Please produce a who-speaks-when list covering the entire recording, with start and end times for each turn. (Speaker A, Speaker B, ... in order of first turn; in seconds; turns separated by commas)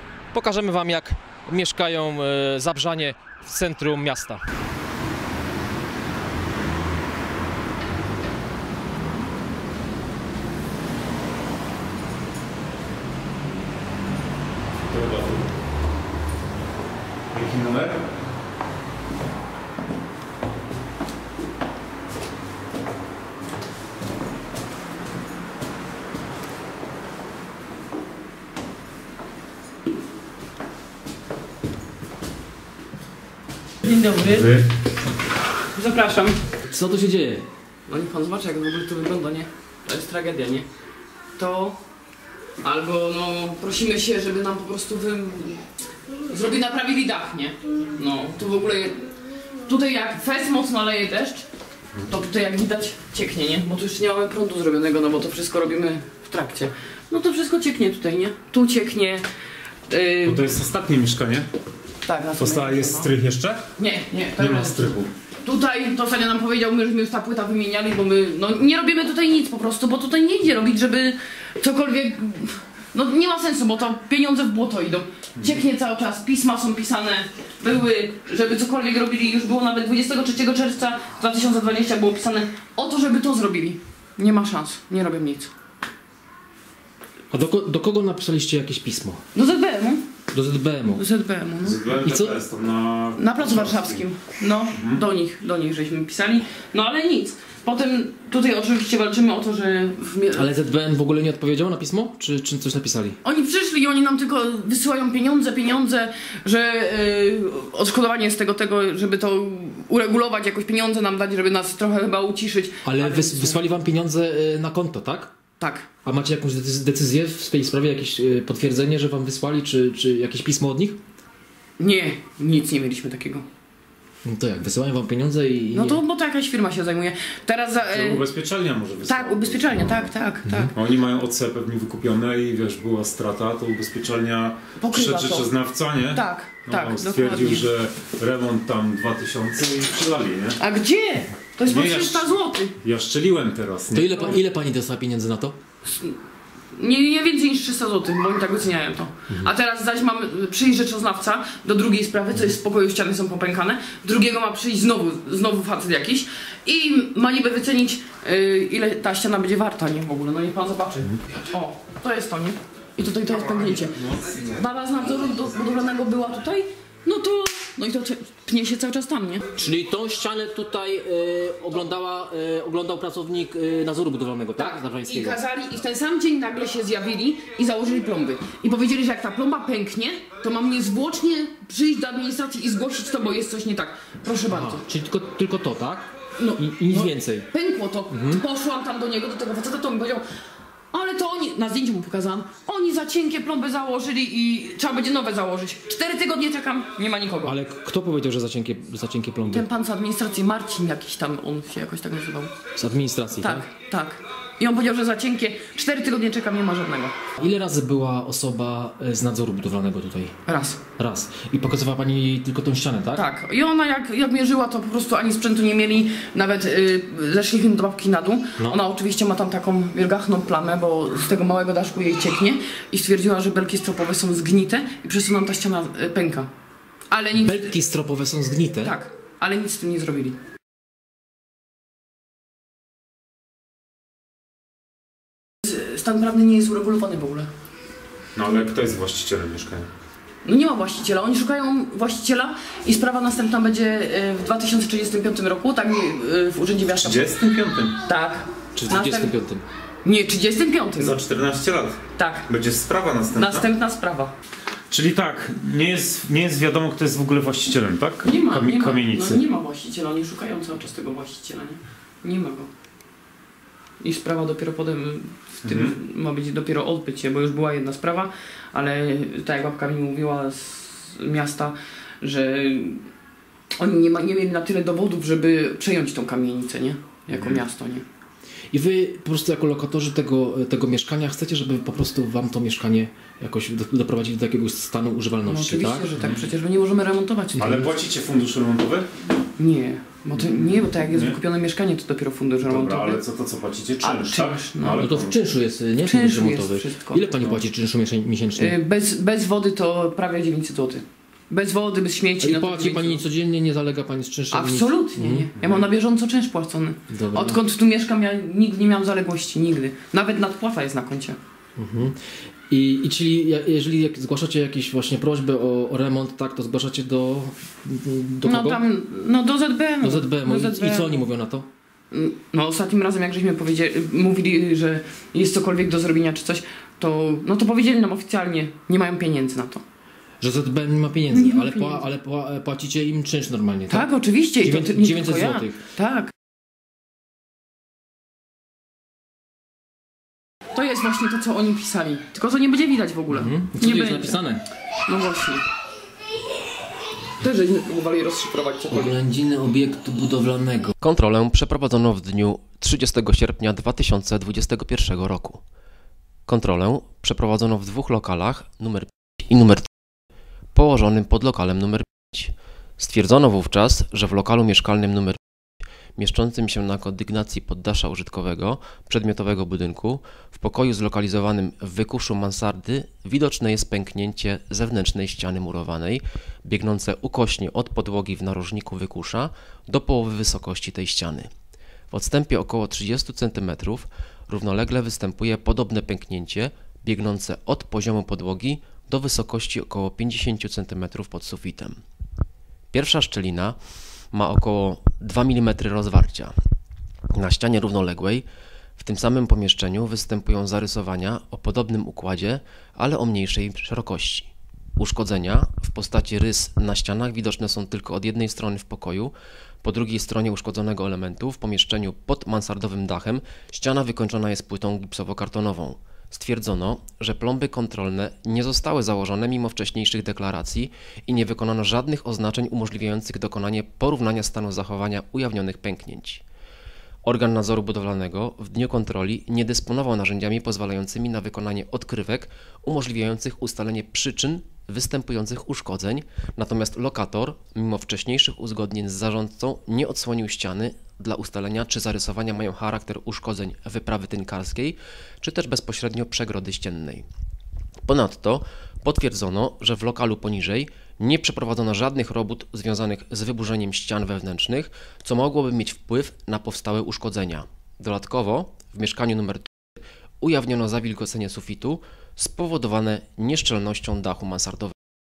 Speaker A: 0.3-4.4, Speaker B: 14.9-15.5, Speaker B: 17.3-18.0, Speaker C: 33.8-34.5, Speaker B: 34.2-34.6, Speaker C: 35.7-36.4, Speaker A: 36.7-37.5, Speaker C: 37.9-40.7, Speaker C: 41.4-41.8, Speaker C: 42.6-45.6, Speaker C: 46.3-49.1, Speaker C: 49.6-51.4, Speaker C: 52.1-59.2, Speaker C: 59.9-60.4, Speaker B: 60.2-61.5, Speaker C: 62.0-63.1, Speaker B: 62.4-63.6, Speaker C: 63.8-85.5, Speaker B: 64.4-65.1, Speaker A: 87.3-89.2, Speaker C: 89.3-90.0, Speaker A: 90.3-91.0, Speaker C: 91.0-91.8, Speaker B: 91.6-94.0, Speaker A: 91.9-92.4, Speaker C: 93.2-100.5, Speaker B: 94.7-95.0, Speaker A: 100.3-103.2, Speaker C: 103.2-113.6, Speaker A: 112.8-115.3, Speaker C: 115.6-115.9, Speaker A: 116.0-121.0, Speaker C: 121.8-123.5, Speaker A: 124.2-126.0, Speaker C: 125.7-128.2, Speaker B: 127.8-130.1, Speaker C: 129.1-130.7, Speaker B: 130.7-140.6, Speaker C: 134.8-135.5, Speaker C: 136.1-137.6, Speaker C: 140.6-142.7, Speaker B: 141.6-144.2, Speaker A: 143.9-145.6, Speaker C: 144.1-144.4, Speaker C: 145.8-146.2, Speaker C: 146.7-169.4, Speaker B: 163.3-164.6, Speaker A: 169.6-175.4, Speaker C: 174.6-184.8, Speaker A: 184.5-187.5, Speaker C: 186.4-190.2, Speaker A: 188.1-188.4, Speaker C: 190.9-197.6, Speaker A: 197.4-199.7, Speaker C: 199.5-202.5, Speaker A: 202.8-203.6, Speaker C: 203.4-207.1, Speaker A: 207.4-210.4, Speaker C: 210.4-210.8, Speaker A: 211.0-213.2, Speaker C: 213.1-226.5, Speaker C: 227.1-227.7, Speaker A: 227.3-228.9, Speaker C: 228.8-230.4, Speaker C: 235.6-237.5, Speaker B: 238.3-239.9, Speaker C: 240.4-247.3, Speaker B: 246.9-248.0, Speaker C: 248.0-249.3, Speaker A: 248.7-249.6, Speaker C: 250.0-251.2, Speaker B: 251.0-253.7, Speaker C: 252.1-252.5, Speaker C: 253.3-254.3, Speaker B: 254.9-259.4, Speaker C: 258.2-262.7, Speaker C: 264.0-273.0, Speaker B: 265.6-265.9, Speaker C: 273.7-278.0, Speaker B: 277.3-277.6, Speaker A: 278.7-286.1, Speaker C: 285.5-287.9, Speaker B: 286.1-286.5, Speaker B: 287.6-289.1, Speaker C: 289.6-293.2, Speaker B: 290.3-291.4, Speaker B: 292.6-295.4, Speaker C: 294.0-295.1, Speaker A: 295.0-298.8, Speaker C: 296.0-297.2, Speaker C: 298.6-303.2, Speaker A: 302.4-305.8, Speaker C: 304.5-311.4, Speaker A: 307.1-307.6, Speaker A: 311.8-318.8, Speaker C: 318.4-321.1, Speaker A: 320.0-321.7, Speaker C: 322.1-329.8, Speaker A: 330.4-334.1, Speaker C: 331.3-332.0, Speaker C: 333.9-336.3, Speaker A: 334.6-335.8, Speaker C: 340.7-344.4, Speaker A: 343.3-344.6, Speaker C: 345.1-345.6, Speaker C: 347.4-349.1, Speaker A: 348.9-350.9, Speaker D: 351.0-355.6, Speaker D: 356.5-359.9, Speaker D: 360.7-365.4, Speaker D: 366.2-381.5, Speaker D: 382.1-392.0, Speaker D: 392.9-393.8, Speaker D: 394.3-396.5, Speaker D: 397.3-398.4, Speaker D: 399.0-426.4, Speaker D: 427.2-447.2, Speaker D: 448.1-459.7, Speaker D: 460.4-464.9